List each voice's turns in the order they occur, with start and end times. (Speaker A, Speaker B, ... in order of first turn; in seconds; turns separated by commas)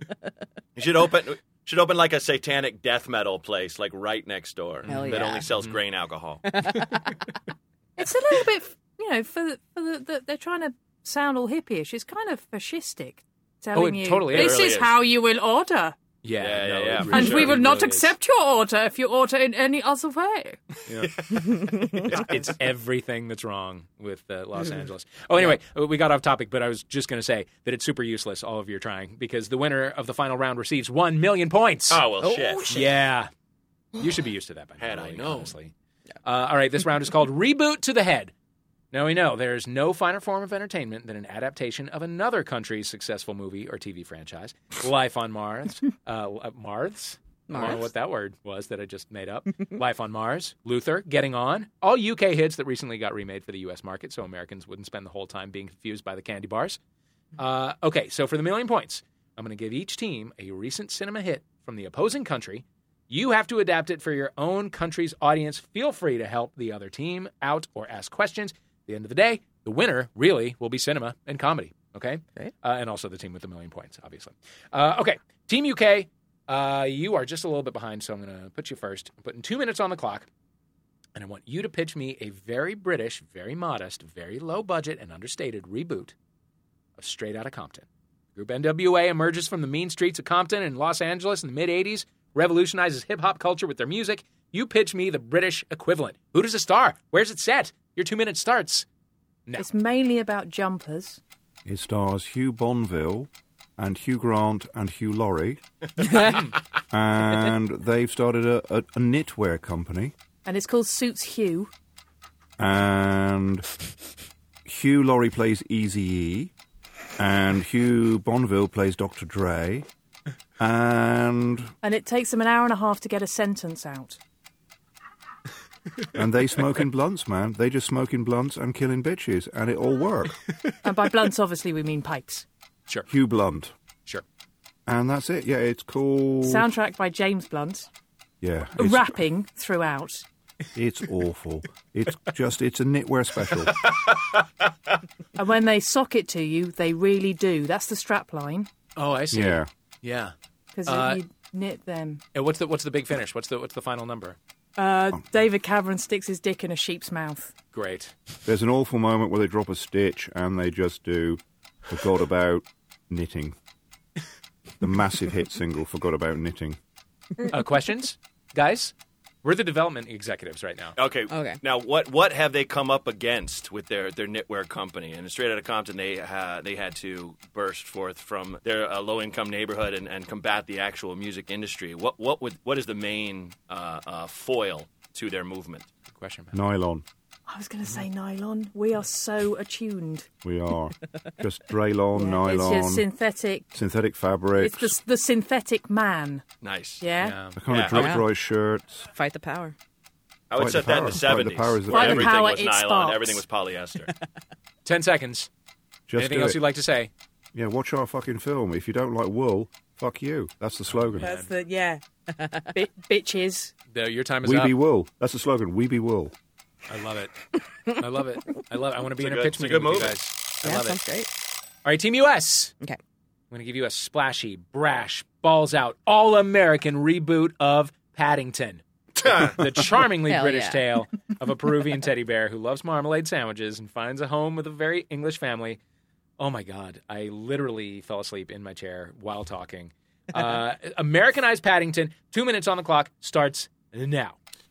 Speaker A: 0.8-6.5, Speaker B: 4.8-5.8, Speaker C: 4.9-5.5, Speaker C: 6.5-7.1, Speaker D: 8.0-16.0, Speaker B: 13.7-14.7, Speaker A: 14.3-14.9, Speaker B: 16.2-18.1, Speaker A: 16.4-17.6, Speaker D: 17.1-20.6, Speaker B: 20.9-32.0, Speaker A: 21.1-22.5, Speaker C: 21.5-21.9, Speaker A: 31.9-32.8, Speaker C: 32.2-32.8, Speaker B: 32.7-33.3, Speaker B: 34.0-35.7, Speaker A: 34.8-35.5, Speaker B: 36.2-38.3, Speaker B: 38.9-56.8, Speaker C: 47.5-47.9, Speaker B: 57.4-80.3, Speaker B: 81.1-86.1, Speaker B: 87.0-98.9, Speaker D: 99.6-101.2, Speaker E: 101.6-105.6, Speaker C: 106.0-106.3, Speaker E: 106.9-110.1, Speaker D: 110.4-111.7, Speaker E: 112.6-113.7, Speaker E: 114.6-116.5, Speaker E: 117.2-119.9, Speaker E: 120.6-121.7, Speaker D: 121.8-124.2, Speaker E: 126.1-130.4, Speaker D: 130.8-132.4, Speaker E: 133.1-133.7, Speaker E: 134.9-136.7, Speaker D: 136.4-137.9, Speaker E: 138.4-139.2, Speaker D: 138.8-140.2, Speaker E: 140.7-143.9, Speaker A: 143.8-144.4, Speaker D: 145.3-148.7, Speaker B: 149.0-150.3, Speaker E: 149.3-149.7, Speaker D: 150.7-152.2, Speaker B: 150.8-151.2, Speaker B: 152.3-154.4, Speaker D: 154.8-157.5, Speaker B: 157.7-158.1, Speaker E: 158.4-163.6, Speaker E: 164.8-166.8, Speaker B: 167.5-170.9, Speaker A: 170.9-185.9, Speaker C: 171.3-171.6, Speaker B: 186.1-186.6, Speaker E: 186.5-187.0, Speaker D: 187.5-190.3, Speaker E: 190.4-193.1, Speaker D: 192.1-193.7, Speaker E: 193.7-194.9, Speaker D: 194.6-196.4, Speaker A: 196.6-197.0, Speaker D: 197.0-197.5, Speaker B: 197.2-197.6, Speaker E: 197.6-199.1, Speaker A: 197.7-198.1, Speaker C: 197.9-198.3, Speaker C: 199.1-199.7, Speaker A: 200.5-204.1, Speaker E: 200.6-202.4, Speaker D: 201.9-203.4, Speaker B: 204.8-205.5, Speaker E: 206.1-206.6, Speaker B: 206.2-207.1, Speaker E: 207.5-211.3, Speaker B: 210.9-211.5, Speaker D: 211.2-212.0, Speaker D: 212.7-213.7, Speaker B: 213.9-214.8, Speaker E: 214.4-216.3, Speaker B: 216.9-217.3, Speaker B: 217.9-221.0, Speaker A: 219.2-220.2, Speaker C: 220.6-221.3, Speaker B: 221.8-222.7, Speaker B: 223.5-235.8, Speaker A: 229.2-229.6, Speaker C: 230.2-230.9, Speaker B: 236.4-244.3